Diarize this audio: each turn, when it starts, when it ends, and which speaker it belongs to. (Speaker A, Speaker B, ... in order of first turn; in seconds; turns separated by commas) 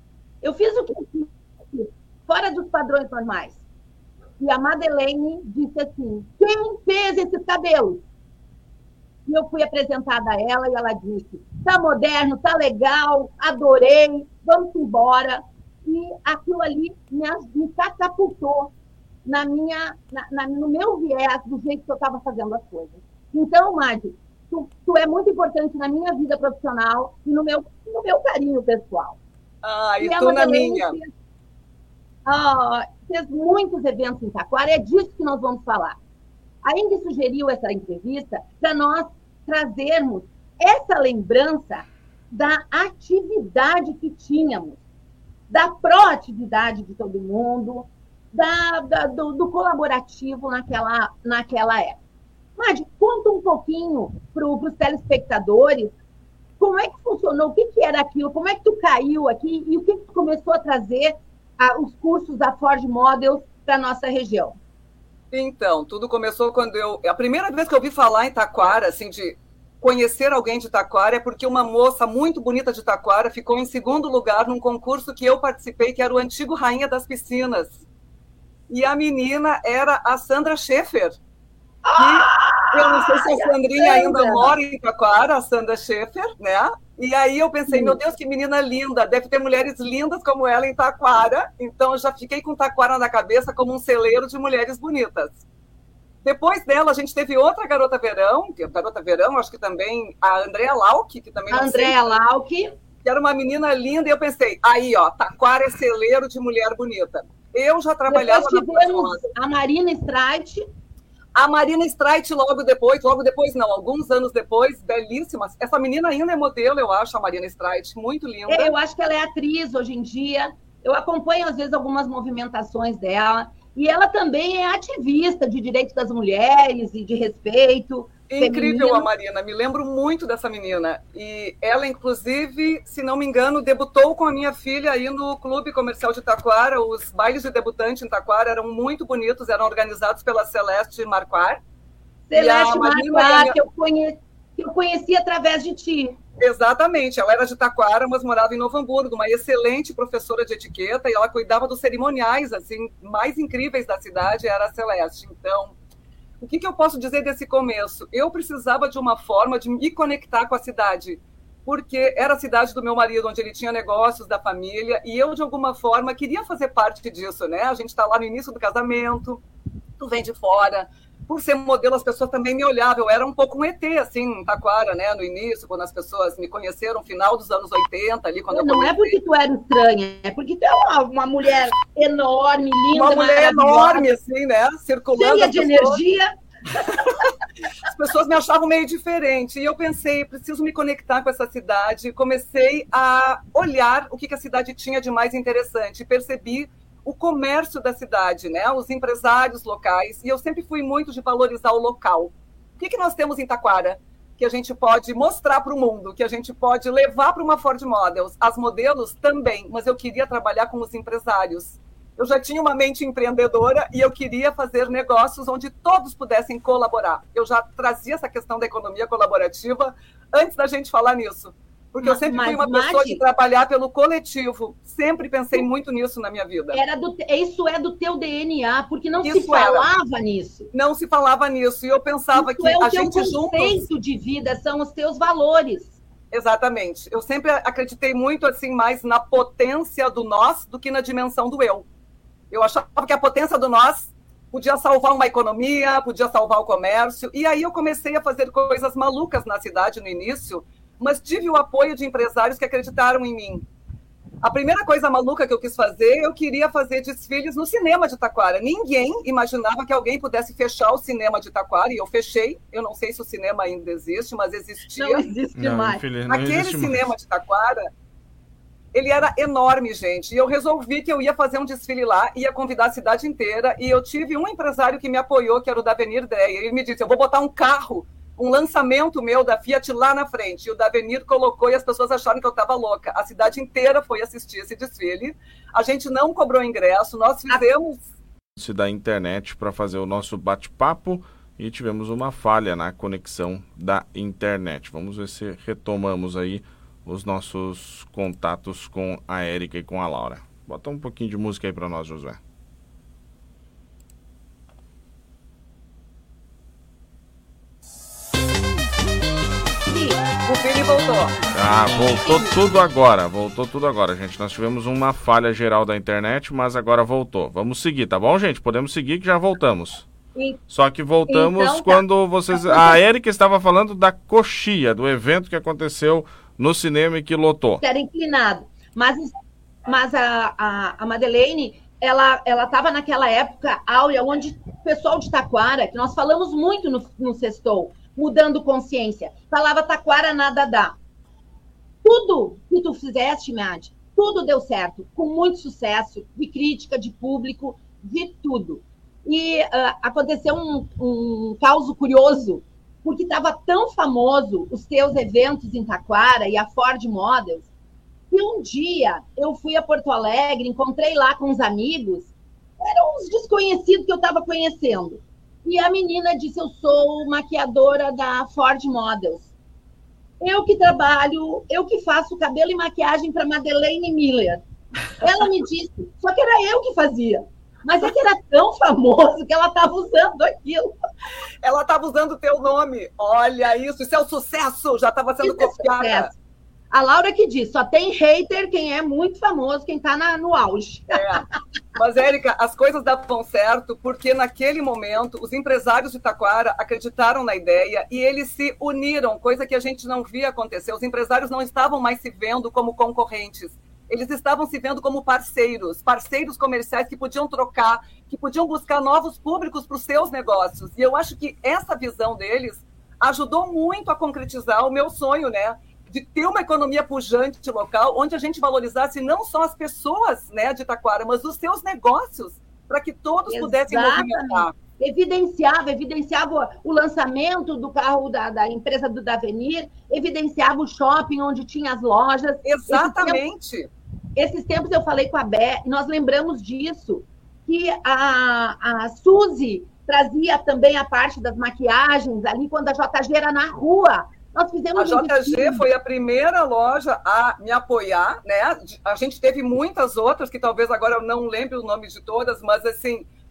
Speaker A: 0.4-3.6, Speaker A: 4.4-8.0, Speaker A: 9.3-18.7, Speaker A: 19.2-29.2, Speaker B: 29.6-31.0, Speaker A: 30.0-31.1, Speaker A: 32.3-36.0, Speaker A: 36.6-44.8, Speaker A: 45.5-52.0, Speaker A: 52.6-55.9, Speaker A: 56.6-64.6, Speaker B: 65.3-77.8, Speaker B: 78.7-81.2, Speaker A: 81.8-84.5, Speaker B: 82.0-95.4, Speaker A: 87.7-88.0, Speaker B: 96.2-102.1, Speaker A: 101.5-102.7, Speaker B: 103.0-109.2, Speaker A: 108.1-110.7, Speaker B: 111.4-118.7, Speaker A: 118.5-129.1, Speaker B: 128.3-141.6, Speaker A: 142.3-146.2, Speaker B: 142.3-143.6, Speaker B: 146.4-155.7, Speaker B: 156.4-169.4, Speaker B: 170.0-179.2, Speaker A: 178.5-184.1, Speaker B: 182.9-186.0, Speaker A: 185.1-186.3, Speaker B: 187.9-226.8, Speaker A: 222.0-223.2, Speaker A: 226.7-230.7, Speaker B: 229.2-229.9, Speaker B: 230.7-233.8, Speaker A: 232.3-235.9, Speaker B: 236.3-241.8, Speaker B: 242.5-253.7, Speaker B: 254.4-265.3, Speaker A: 265.0-266.0, Speaker C: 265.6-267.1, Speaker B: 266.3-267.9, Speaker B: 268.9-288.0, Speaker C: 288.6-302.4, Speaker A: 309.9-310.2, Speaker B: 310.4-311.3, Speaker C: 311.5-320.1, Speaker A: 312.2-312.6, Speaker C: 320.7-327.8, Speaker A: 321.3-323.0, Speaker A: 327.8-329.3, Speaker A: 329.9-340.9, Speaker A: 342.0-357.7, Speaker A: 358.3-362.3, Speaker A: 362.8-369.5, Speaker A: 370.4-374.6, Speaker A: 375.2-380.9, Speaker B: 381.6-386.3, Speaker A: 385.4-386.3, Speaker A: 386.9-391.4, Speaker B: 391.1-391.4, Speaker B: 391.9-424.7, Speaker A: 423.5-433.4, Speaker B: 432.6-433.9, Speaker A: 434.4-445.9, Speaker B: 445.0-453.3